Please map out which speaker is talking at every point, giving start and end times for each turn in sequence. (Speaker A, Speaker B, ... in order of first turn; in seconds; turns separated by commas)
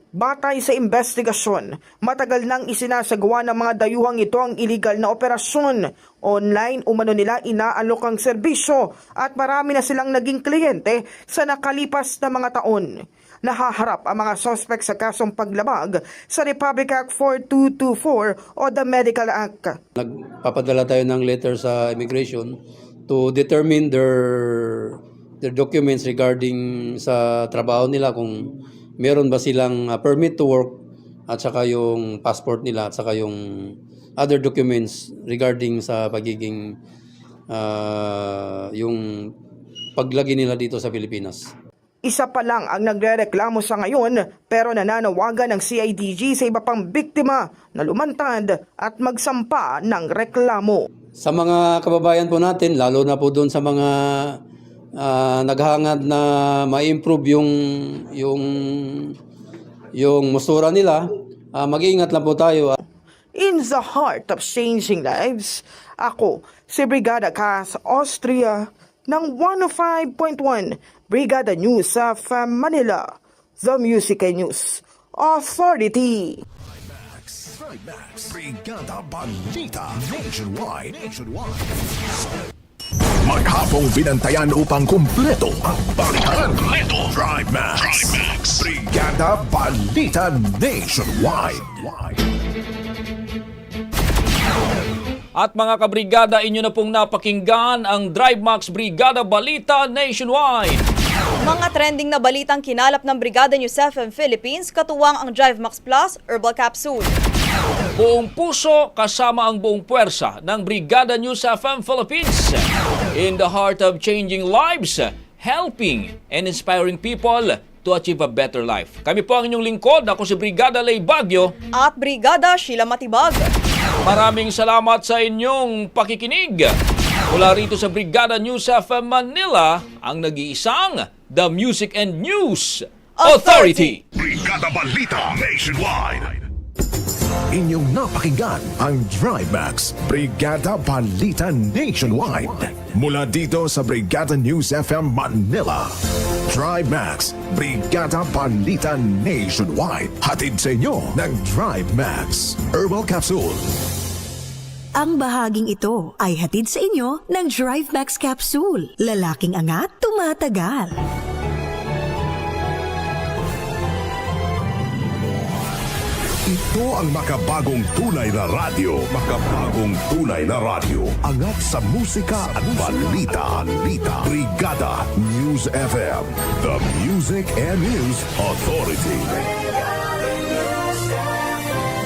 Speaker A: 0.2-19.8, Speaker B: 20.0-22.6, Speaker B: 23.1-36.8, Speaker B: 37.5-39.3, Speaker B: 40.0-41.5, Speaker A: 42.0-50.9, Speaker B: 51.2-54.4, Speaker B: 55.0-59.1, Speaker B: 60.0-62.7, Speaker A: 63.4-76.4, Speaker C: 76.7-81.9, Speaker C: 83.2-92.2, Speaker D: 95.4-100.9, Speaker E: 101.4-107.2, Speaker D: 108.0-121.5, Speaker E: 121.8-123.5, Speaker D: 124.0-126.8, Speaker D: 127.3-134.0, Speaker E: 133.2-134.0, Speaker C: 134.2-136.4, Speaker C: 137.5-153.8, Speaker F: 155.0-161.0, Speaker C: 166.5-179.6